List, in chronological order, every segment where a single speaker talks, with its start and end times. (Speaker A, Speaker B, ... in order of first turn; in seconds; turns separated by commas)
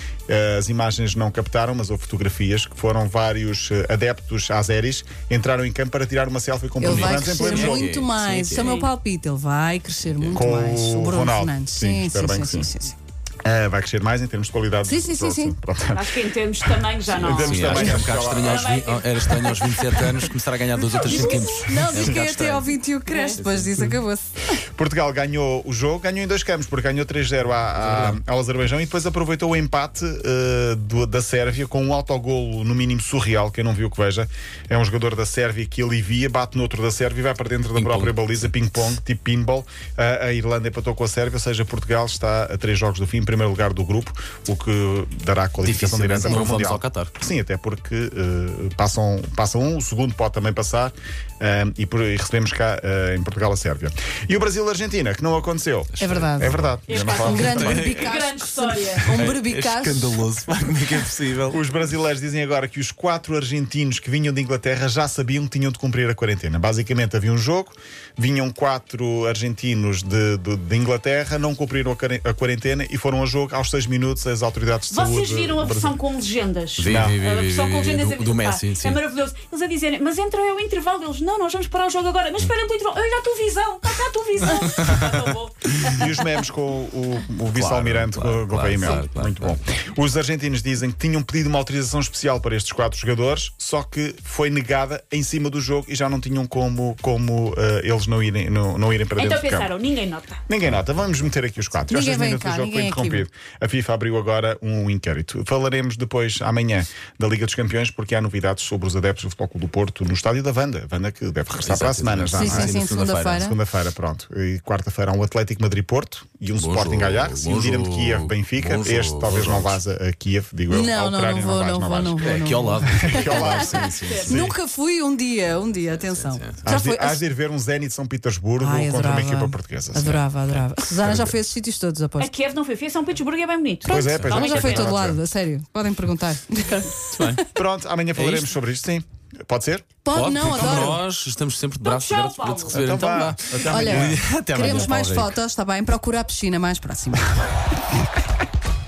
Speaker A: 0.3-7.9, Speaker B: 6.8-13.0, Speaker C: 6.8-8.8, Speaker D: 8.5-8.9, Speaker C: 10.1-10.4, Speaker A: 10.3-12.7, Speaker A: 13.4-16.1, Speaker B: 14.9-15.6, Speaker D: 15.9-20.0, Speaker A: 16.6-18.7, Speaker C: 17.4-22.8, Speaker B: 21.0-24.3, Speaker A: 21.7-22.3, Speaker D: 23.1-23.4, Speaker C: 23.4-24.0, Speaker A: 24.8-57.9, Speaker C: 27.8-28.2, Speaker C: 37.8-38.5, Speaker C: 45.6-47.1, Speaker C: 55.9-56.8, Speaker B: 56.0-56.6, Speaker D: 56.9-59.2, Speaker B: 57.1-60.2, Speaker C: 57.5-58.0, Speaker C: 59.1-61.6, Speaker A: 61.5-76.0, Speaker D: 74.9-86.1, Speaker C: 76.8-79.0, Speaker A: 76.9-77.2, Speaker C: 84.5-85.2, Speaker A: 85.9-99.7, Speaker C: 87.5-89.6, Speaker D: 99.2-100.4, Speaker A: 100.5-112.8, Speaker B: 101.9-103.2, Speaker C: 111.6-113.5, Speaker B: 112.3-113.6, Speaker A: 113.3-122.2, Speaker C: 116.6-119.8, Speaker B: 120.7-127.2, Speaker C: 122.2-124.5, Speaker A: 122.9-124.6, Speaker C: 125.9-126.7, Speaker A: 126.6-130.2, Speaker B: 128.6-132.3, Speaker A: 130.8-131.4, Speaker D: 132.2-135.0, Speaker A: 133.9-135.2, Speaker B: 133.9-137.2, Speaker C: 134.1-134.4, Speaker C: 137.1-137.4, Speaker A: 137.5-139.9, Speaker C: 138.2-138.5, Speaker B: 140.0-141.0, Speaker C: 140.1-145.3, Speaker D: 141.8-142.9, Speaker A: 142.7-144.2, Speaker B: 143.7-147.4